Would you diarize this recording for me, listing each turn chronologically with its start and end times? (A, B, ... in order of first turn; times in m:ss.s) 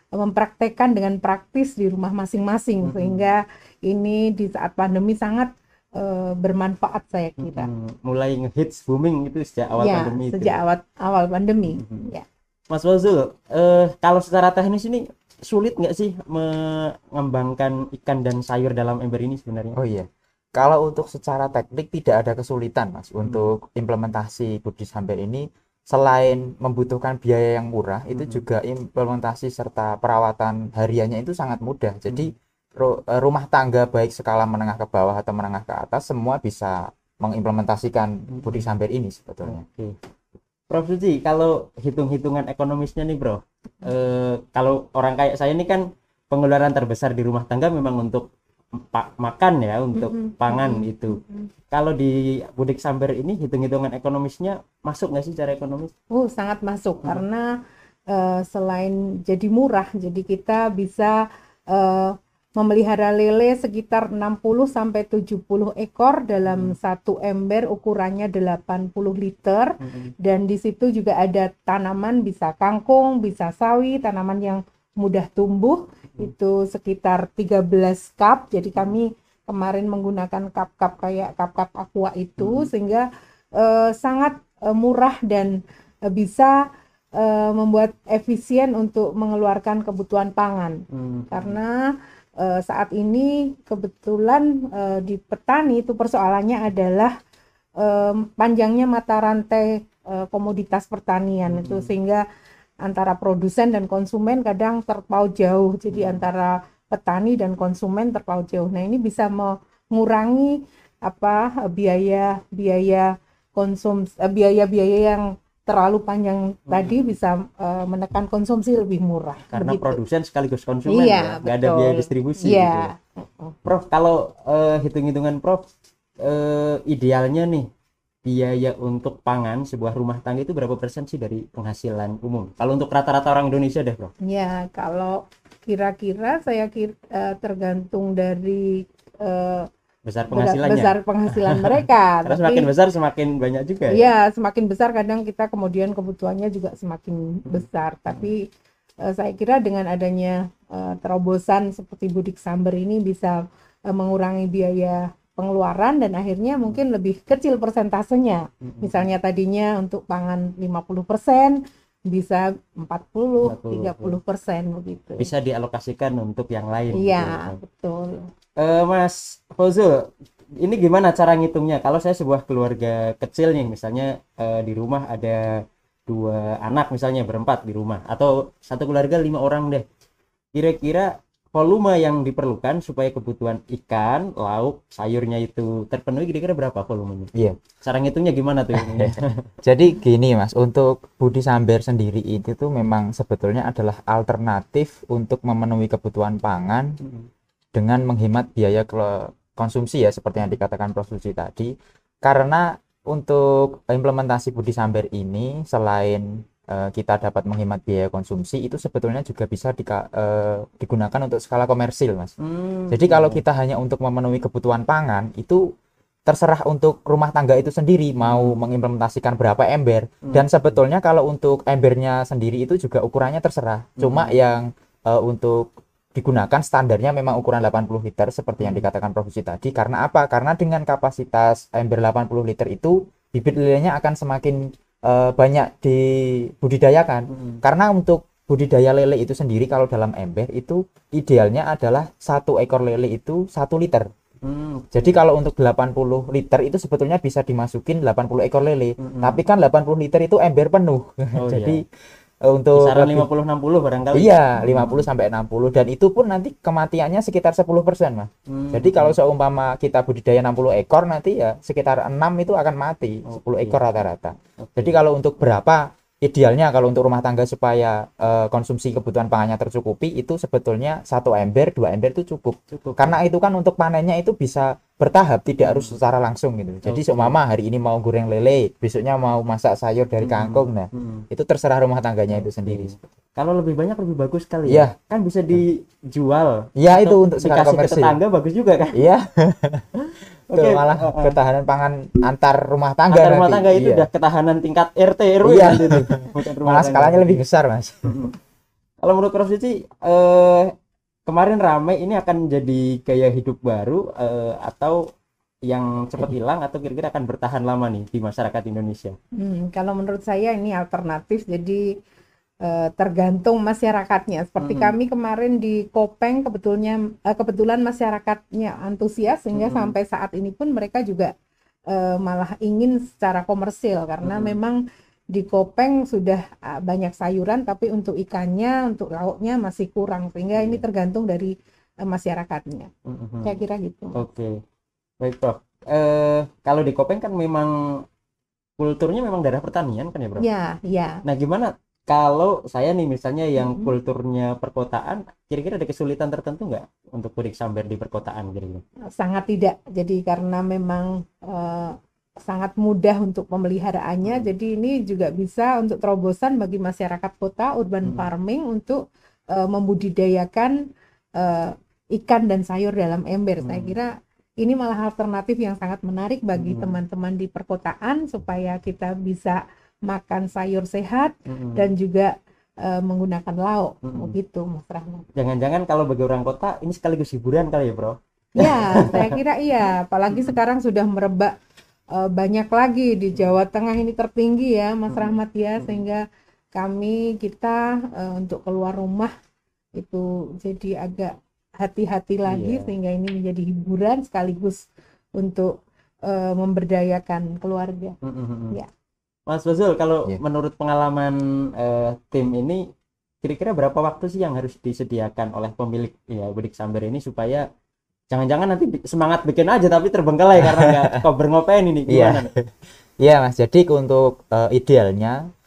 0:00.1-0:07.7 A
0:02.8-0:03.2 B
0:07.4-0:10.6 B
0:09.8-0:12.2 A
0:11.7-0:12.1 B
0:12.7-0:19.8 B
0:19.8-0:39.6 C
0:28.1-0:28.4 B
0:38.3-0:38.7 B
0:39.4-0:39.9 B
0:40.7-0:48.2 B
0:48.9-0:51.2 B
0:50.0-0:51.5 A
0:51.7-0:55.9 B
0:56.1-0:57.5 A
0:58.1-1:01.2 A
1:01.7-1:23.0 A
1:06.4-1:06.8 B
1:09.8-1:10.1 B
1:22.4-1:22.7 B
1:23.6-1:25.5 A
1:26.1-1:26.5 A
1:27.2-1:30.8 A
1:30.9-1:31.6 B
1:31.3-1:31.8 A
1:32.4-1:37.1 A
1:37.8-1:42.2 A
1:41.5-1:41.9 B
1:42.8-2:00.0 A
1:45.9-1:46.2 B
1:56.7-1:57.1 B
1:59.5-2:02.9 B
2:00.8-2:03.6 A
2:03.6-2:05.6 B
2:06.2-2:07.6 B
2:08.2-2:14.1 B
2:14.3-2:19.7 A
2:20.0-2:24.1 B
2:20.3-2:22.7 A
2:23.9-2:28.4 A
2:27.5-2:28.3 B
2:29.1-2:33.4 A
2:33.9-2:41.6 A
2:38.6-2:39.1 B
2:42.1-2:45.3 A
2:43.4-2:44.2 B
2:45.2-2:47.6 B
2:46.9-2:48.3 A
2:48.6-2:50.0 B
2:50.6-2:55.4 B
2:56.1-2:59.8 B
3:00.5-3:07.3 B
3:07.8-3:09.4 B
3:08.7-3:16.9 C
3:17.0-3:17.3 B
3:17.7-3:21.7 C
3:22.2-3:32.3 C
3:32.4-3:33.4 B
3:32.9-3:35.6 C
3:36.3-4:04.0 C
3:38.2-3:38.6 B
3:40.2-3:40.8 B
3:44.0-3:44.3 B
3:48.6-3:48.8 B
3:57.3-3:57.6 B
4:04.4-4:05.2 B
4:04.9-4:11.8 C
4:09.0-4:09.4 B
4:11.4-4:11.8 B
4:12.4-4:13.3 C
4:12.8-4:15.0 B
4:14.1-4:43.0 C
4:18.5-4:19.2 B
4:23.2-4:23.8 B
4:24.6-4:25.0 B
4:32.7-4:33.2 B
4:35.6-4:36.0 B
4:36.8-4:37.4 B
4:40.2-4:41.2 B
4:42.3-4:49.0 B
4:44.7-4:44.9 C
4:46.8-4:48.2 C
4:48.9-4:49.9 C
4:50.5-4:51.3 B
4:50.5-4:54.1 C
4:53.1-4:57.4 B
4:55.4-4:58.2 C
4:59.0-5:00.7 B
5:01.3-5:05.0 B
5:05.7-5:09.2 B
5:09.4-5:11.8 A
5:12.6-5:21.3 A
5:14.6-5:14.9 B
5:19.5-5:20.0 B
5:21.9-5:24.8 A
5:24.2-5:24.6 B
5:25.3-5:31.5 A
5:30.5-5:30.8 B
5:32.0-5:32.9 A
5:33.0-5:33.6 B
5:33.4-5:34.2 A
5:34.1-5:34.5 B
5:35.2-5:37.7 B
5:38.8-5:40.4 B
5:40.4-5:41.2 A
5:41.2-5:48.8 B
5:43.6-5:43.9 A
5:49.2-5:51.9 A
5:52.4-5:59.0 A
5:58.0-5:58.3 B
5:59.5-6:00.7 A
6:01.4-6:12.3 A
6:03.6-6:03.9 B
6:06.6-6:07.0 B
6:11.5-6:11.9 B
6:12.8-6:15.2 A
6:14.0-6:14.3 B
6:15.3-6:19.4 B
6:18.6-6:21.5 A
6:20.3-6:20.6 B
6:22.1-6:26.2 A
6:25.1-6:26.0 B
6:26.7-6:29.3 A
6:30.0-6:34.8 A
6:32.5-6:32.9 B
6:35.4-6:35.7 A
6:36.3-6:38.2 A
6:38.2-6:38.8 B
6:39.5-6:42.8 B
6:43.4-6:47.6 B
6:48.3-6:52.5 B
6:50.6-6:51.2 C
6:52.1-6:55.4 C